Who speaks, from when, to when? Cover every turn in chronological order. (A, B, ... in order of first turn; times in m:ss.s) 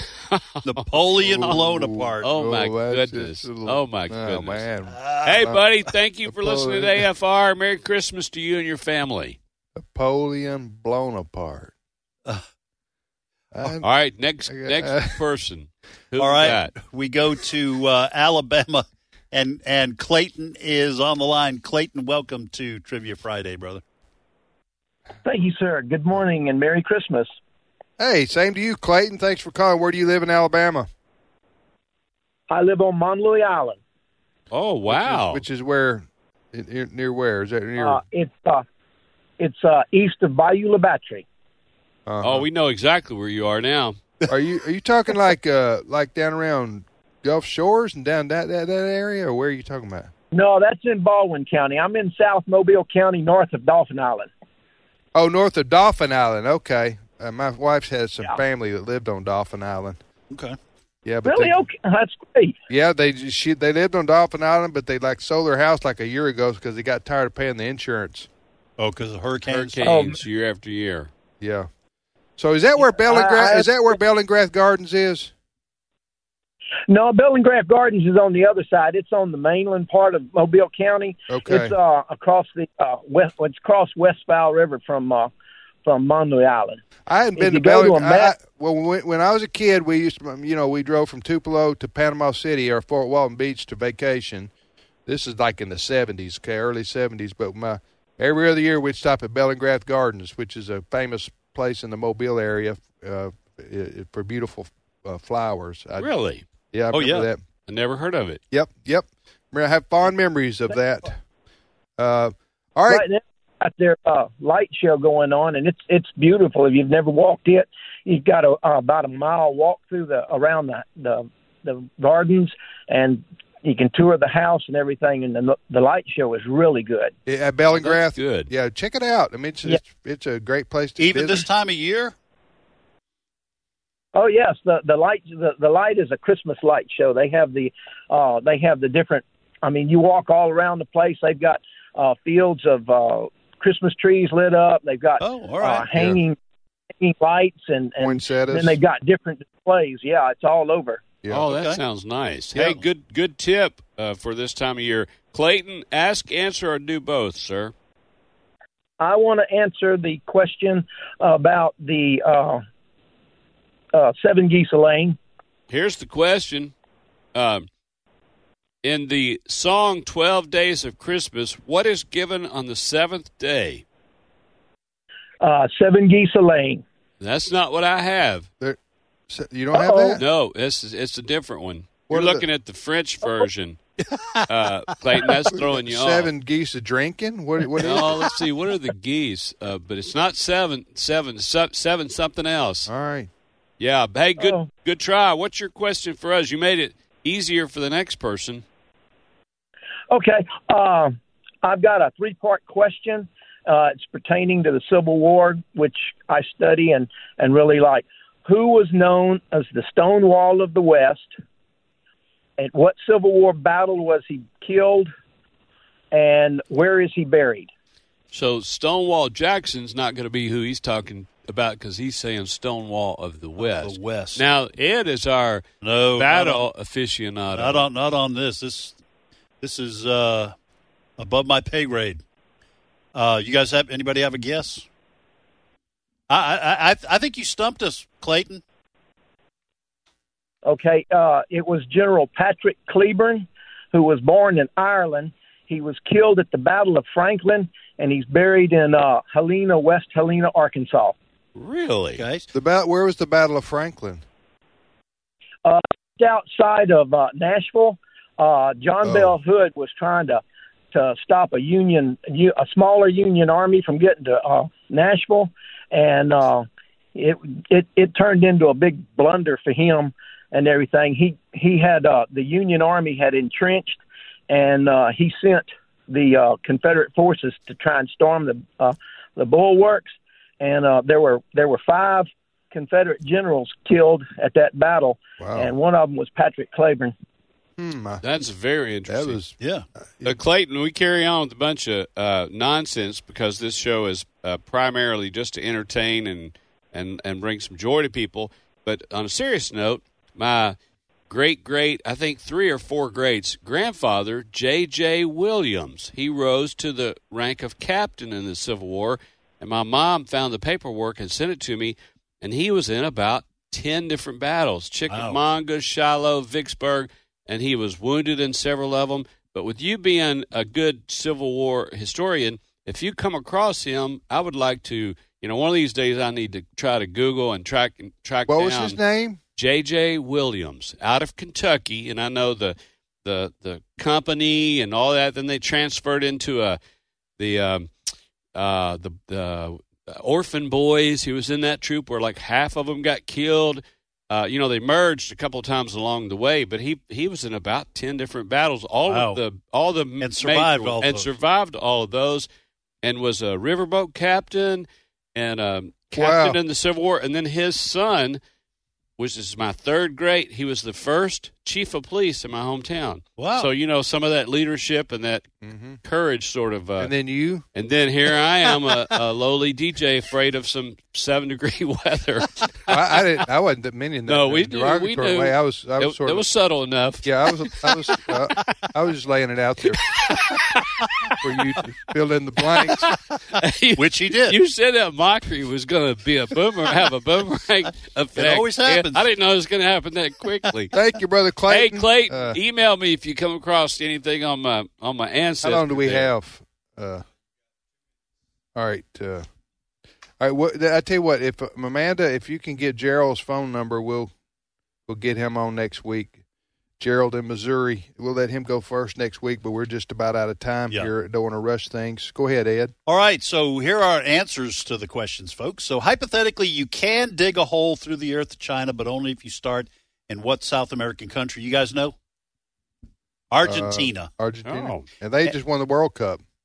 0:00.3-0:00.6 A
0:00.6-0:02.3 B
0:01.2-0:05.6 C
0:02.2-0:04.6 A
0:04.9-0:05.5 B
0:05.2-0:09.4 A
0:06.3-0:07.0 C
0:09.8-0:11.7 C
0:13.5-0:13.9 C
0:13.8-0:16.7 A
0:14.5-0:15.2 C
0:16.2-0:23.8 B
0:25.2-0:27.3 D
0:28.0-0:30.9 C
0:32.5-0:33.8 D
0:34.5-0:35.4 A
0:34.9-0:38.0 C
0:37.8-0:38.6 D
0:39.4-0:41.2 D
0:42.1-0:42.4 C
0:42.2-0:44.0 A
0:44.3-0:50.1 C
0:50.3-0:54.3 D
0:55.1-1:00.0 C
1:00.3-1:00.6 B
1:01.0-1:01.6 C
1:01.2-1:02.6 D
1:02.7-1:08.3 C
1:08.8-1:09.9 B
1:09.5-1:11.1 A
1:09.8-1:10.2 D
1:11.4-1:11.7 C
1:12.4-1:15.3 C
1:12.8-1:13.9 D
1:16.9-1:25.3 D
1:21.3-1:21.7 C
1:25.8-1:26.8 D
1:27.1-1:34.5 C
1:27.4-1:28.3 D
1:35.0-1:46.1 C
1:46.0-1:46.4 A
1:46.7-1:47.4 C
1:46.9-1:47.3 B
1:47.7-1:48.4 A
1:48.5-1:51.2 C
1:52.0-1:53.0 C
1:52.9-2:07.1 D
2:07.2-2:11.4 C
2:07.7-2:08.5 A
2:11.0-2:12.1 B
2:14.1-2:26.4 D
2:25.2-2:25.9 B
2:25.9-2:26.2 C
2:27.0-2:31.0 D
2:28.0-2:28.8 C
2:31.3-2:37.7 A
2:31.5-2:31.8 B
2:32.5-2:32.8 C
2:39.0-2:42.6 D
2:43.9-2:45.2 D
2:45.7-2:46.7 A
2:47.3-2:47.7 A
2:48.8-2:53.8 A
2:55.4-2:56.8 D
2:57.2-2:58.5 A
2:59.3-3:00.2 C
2:59.7-3:00.2 D
3:00.2-3:03.8 A
3:02.1-3:02.4 C
3:04.0-3:04.5 B
3:04.5-3:06.3 A
3:05.1-3:05.4 B
3:05.5-3:08.3 C
3:07.8-3:12.9 A
3:12.9-3:13.3 C
3:13.8-3:18.6 A
3:14.4-3:14.7 D
3:20.1-3:31.3 D
3:32.6-3:35.1 D
3:36.1-3:37.7 D
3:38.3-3:45.6 A
3:43.6-3:44.4 B
3:45.8-3:46.6 B
3:46.2-3:47.8 A
3:47.5-3:49.0 B
3:49.6-3:50.5 B
3:51.2-3:52.2 B
3:53.1-3:54.8 B
3:56.3-3:58.6 B
4:00.6-4:11.1 D
4:11.5-4:12.2 A
4:12.2-4:12.5 B
4:12.5-4:14.2 C
4:15.6-4:47.1 D
4:19.0-4:19.3 C
4:45.4-4:45.7 C
4:47.8-4:48.2 C
4:48.2-4:49.4 A
4:49.1-4:49.6 C
4:49.6-4:49.8 B
4:50.2-5:00.8 A
5:01.3-5:29.0 A
5:15.1-5:15.4 B
5:28.5-5:29.4 C
5:29.6-5:36.8 A
5:37.4-5:37.9 A
5:38.5-5:52.5 A
5:49.0-5:49.4 B
5:50.2-5:51.3 B
5:53.0-5:58.4 A
5:56.1-5:56.6 C
5:59.2-6:05.4 A
6:03.4-6:03.7 B
6:05.6-6:06.0 C
6:06.0-6:07.1 A
6:07.0-6:07.6 C
6:07.7-6:13.0 A
6:12.9-6:16.4 C
6:14.3-6:18.2 A
6:17.2-6:20.2 C
6:20.1-6:21.3 A
6:21.4-6:23.1 C
6:23.0-6:30.9 A
6:24.0-6:24.6 B
6:28.4-6:29.2 B
6:30.9-6:32.6 C
6:31.7-6:36.3 A
6:35.6-6:37.2 C
6:38.7-6:39.4 C
6:40.4-6:44.3 C
6:45.1-6:46.4 C
6:47.0-6:52.9 C
6:53.0-7:02.1 B
7:03.5-7:04.3 B
7:03.6-7:06.4 C
7:04.6-7:05.0 A